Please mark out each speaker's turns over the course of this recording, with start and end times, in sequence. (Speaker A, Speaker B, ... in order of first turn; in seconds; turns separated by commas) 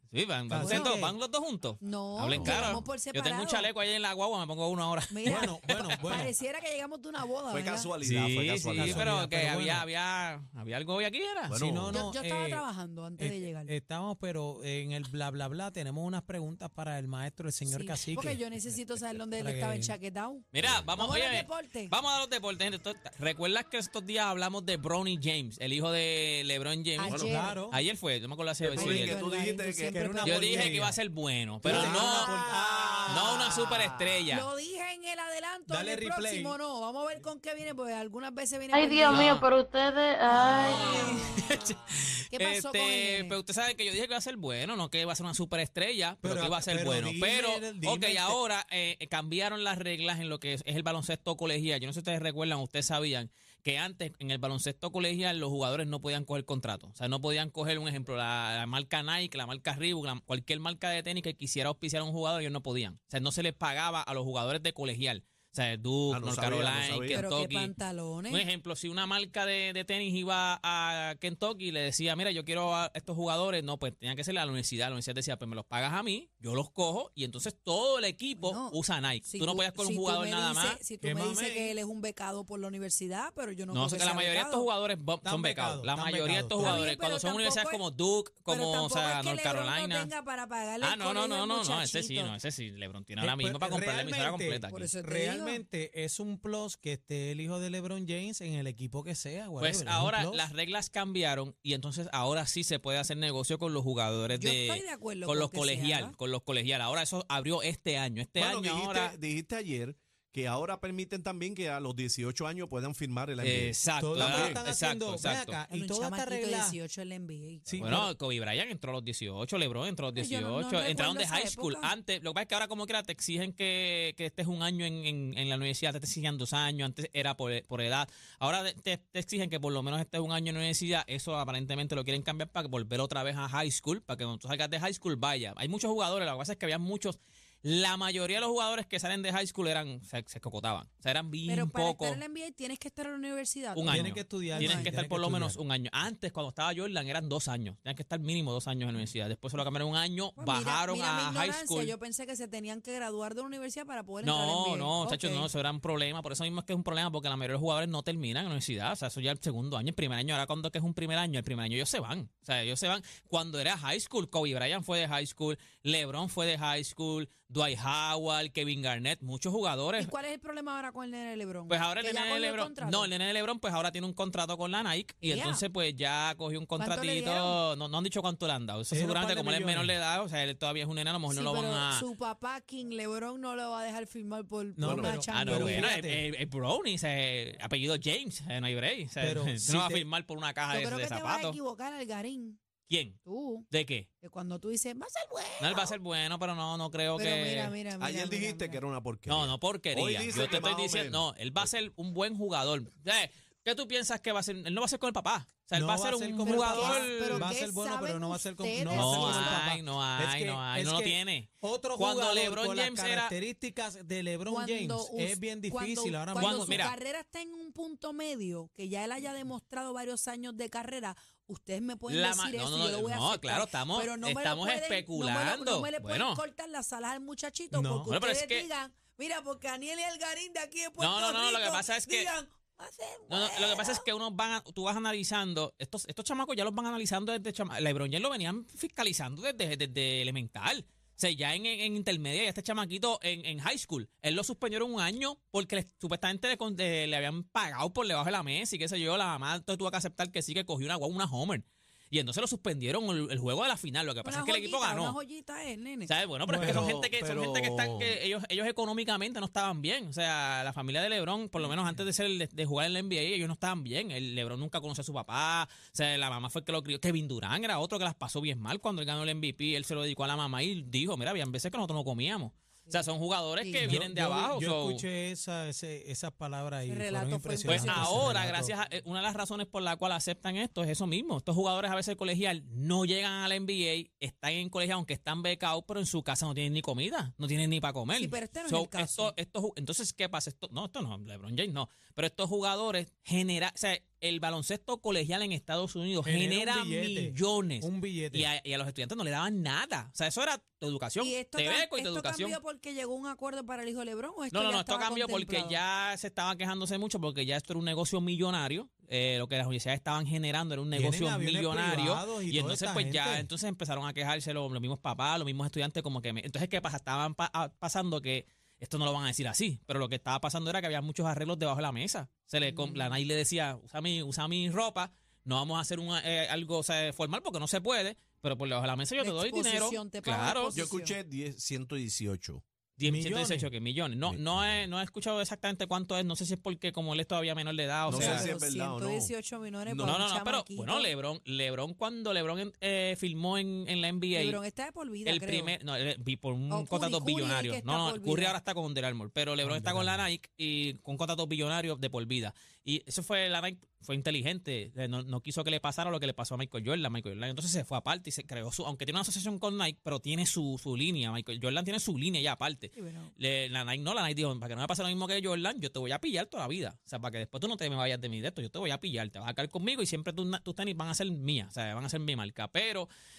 Speaker A: 0.1-6.3, Speaker B: 0.5-1.1, Speaker C: 0.5-1.0, Speaker C: 1.8-3.7, Speaker D: 2.3-2.8, Speaker C: 5.1-7.9, Speaker B: 5.3-6.3, Speaker D: 7.5-9.1, Speaker A: 8.0-11.6, Speaker B: 8.8-9.8, Speaker D: 11.5-12.0, Speaker B: 11.6-12.6, Speaker C: 11.9-13.7, Speaker B: 13.2-18.4, Speaker C: 17.7-21.9, Speaker B: 19.4-20.0, Speaker A: 20.5-29.2, Speaker C: 27.0-27.6, Speaker B: 27.2-27.8, Speaker D: 28.6-30.8, Speaker C: 28.8-30.8, Speaker B: 29.9-30.9, Speaker A: 30.2-32.3, Speaker D: 31.6-34.2, Speaker C: 31.7-32.5, Speaker B: 31.7-33.6, Speaker A: 33.1-34.5, Speaker C: 34.3-39.3, Speaker B: 35.7-36.6, Speaker E: 38.7-41.2, Speaker A: 39.1-39.5, Speaker C: 40.5-41.2, Speaker A: 40.5-67.7, Speaker C: 42.3-43.4, Speaker B: 46.2-48.4, Speaker D: 66.1-67.2, Speaker C: 67.1-68.5, Speaker A: 68.3-80.8, Speaker C: 78.4-84.7, Speaker B: 81.0-81.8, Speaker A: 83.7-90.1, Speaker B: 85.2-86.8, Speaker C: 86.6-87.8, Speaker C: 88.5-92.3, Speaker A: 90.8-94.9, Speaker B: 93.2-100.5, Speaker C: 94.7-95.6, Speaker A: 99.6-109.2, Speaker C: 104.3-106.2, Speaker D: 108.4-114.6, Speaker A: 113.4-115.6, Speaker B: 114.0-116.8, Speaker C: 115.7-118.1, Speaker A: 117.8-142.2, Speaker C: 120.2-121.9, Speaker C: 141.5-144.9, Speaker A: 143.7-151.9, Speaker B: 143.9-145.6, Speaker C: 150.4-155.5, Speaker A: 154.2-170.1, Speaker C: 170.0-173.1, Speaker A: 171.7-182.1, Speaker C: 175.2-175.6, Speaker C: 176.8-177.6, Speaker B: 178.9-179.9, Speaker C: 181.3-185.9, Speaker B: 184.8-186.2, Speaker D: 184.8-185.2, Speaker A: 185.3-191.6, Speaker B: 189.2-190.0, Speaker C: 190.7-192.6, Speaker A: 192.9-193.2, Speaker C: 193.2-193.7, Speaker A: 193.7-194.1, Speaker C: 194.2-195.9, Speaker A: 195.6-197.8, Speaker C: 197.2-198.8, Speaker D: 198.0-201.7, Speaker A: 199.3-207.5, Speaker B: 205.7-216.9, Speaker C: 206.4-209.7, Speaker A: 208.9-213.4, Speaker C: 214.5-234.1, Speaker A: 216.4-216.9, Speaker A: 222.1-226.4, Speaker B: 227.7-228.1, Speaker A: 228.1-228.7, Speaker A: 231.0-232.3, Speaker A: 233.3-255.2, Speaker C: 254.2-256.1, Speaker A: 256.1-275.1, Speaker B: 256.5-256.9, Speaker D: 256.5-258.2, Speaker B: 261.6-262.0, Speaker C: 273.6-273.9, Speaker B: 273.8-278.7, Speaker C: 276.9-278.3, Speaker A: 277.6-302.6, Speaker C: 288.1-289.3, Speaker B: 296.2-298.5, Speaker C: 301.2-305.8, Speaker A: 304.5-330.8, Speaker B: 310.9-313.5, Speaker C: 322.6-323.2, Speaker C: 329.2-331.2, Speaker D: 330.8-332.6, Speaker A: 333.0-338.5, Speaker B: 333.0-333.7, Speaker D: 334.2-334.9, Speaker D: 338.1-339.3, Speaker C: 338.1-341.1, Speaker D: 339.9-340.2, Speaker A: 340.0-344.6, Speaker C: 344.3-345.8, Speaker A: 345.3-373.1, Speaker C: 346.7-348.6, Speaker B: 349.6-350.2, Speaker C: 362.9-363.3